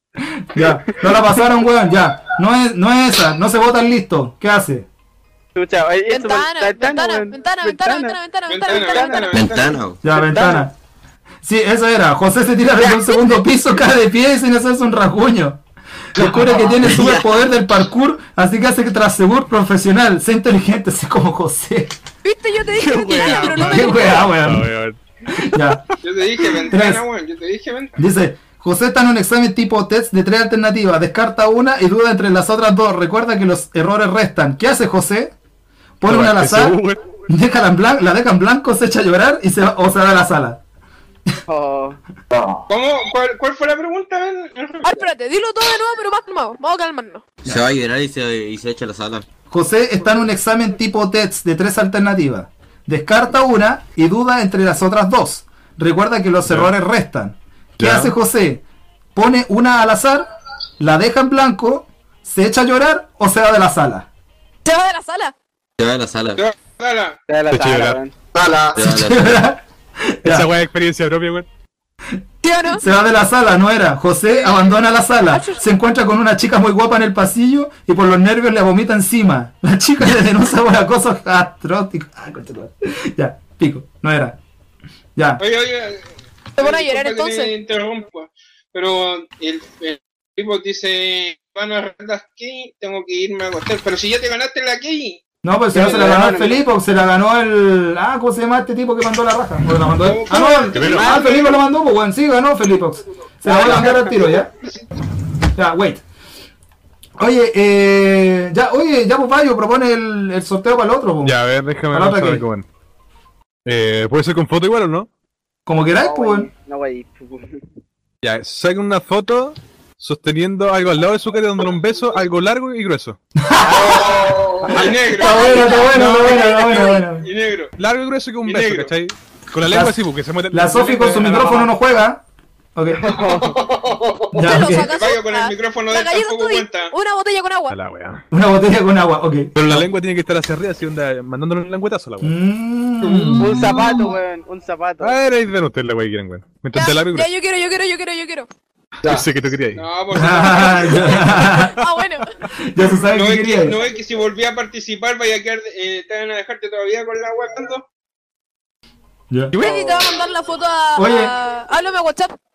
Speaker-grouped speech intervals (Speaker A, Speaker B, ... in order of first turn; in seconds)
Speaker A: 0.3-4.9, 10.0-10.7, 11.4-15.6, 16.1-21.9, 23.5-24.7, 25.3-25.9, 26.7-27.0, 28.0-35.3, 36.0-40.6, 49.5-58.6, 59.1-60.3, 60.8-64.1, 68.7-70.5, 72.8-84.4, 85.2-85.4, 95.4-104.5, 105.5-106.0, 107.2-111.3, 111.9-112.4, 115.7-116.5, 123.4-124.0, 124.7-127.3, 129.6-130.0, 130.5-132.2, 132.7-133.2, 134.3-134.9, 138.3-139.9, 142.2-143.8, 150.1-151.8, 152.5-153.8, 159.3-159.6, 160.9-161.3
Speaker B: 5.5-8.2, 8.8-9.2, 10.1-10.7, 41.5-42.0, 67.3-68.1, 95.7-96.6, 100.8-101.3, 103.5-104.0, 115.9-117.6, 123.6-124.2, 132.9-133.6, 143.4-145.1
Speaker C: 6.1-9.4, 22.2-24.3, 44.8-47.3, 64.6-65.3, 72.4-72.8, 74.3-74.8, 75.3-75.6, 86.6-87.5, 125.1-127.0, 134.3-137.8, 146.7-148.5, 151.3-152.3, 159.6-162.3
Speaker D: 8.5-9.8, 26.0-27.9, 42.7-44.9, 66.3-67.2, 85.4-86.0, 86.6-95.2, 100.0-101.5, 103.5-104.9, 123.8-127.7, 128.4-128.9, 134.9-136.9, 149.7-151.2, 153.1-157.9
Speaker E: 9.3-10.0, 47.4-49.2, 65.8-66.4, 68.7-69.4
Speaker F: 22.7-25.0, 36.0-37.0, 56.5-56.7, 57.8-58.1, 67.5-68.0, 70.2-71.5, 100.6-101.2, 111.2-112.7, 113.6-115.1, 118.2-123.2, 125.9-126.3, 127.8-131.7, 137.7-138.2, 139.5-142.3, 145.0-147.3, 149.1-149.8, 151.4-151.8, 159.5-160.1
Speaker G: 68.3-68.8, 123.6-124.8, 133.1-134.4, 143.1-143.4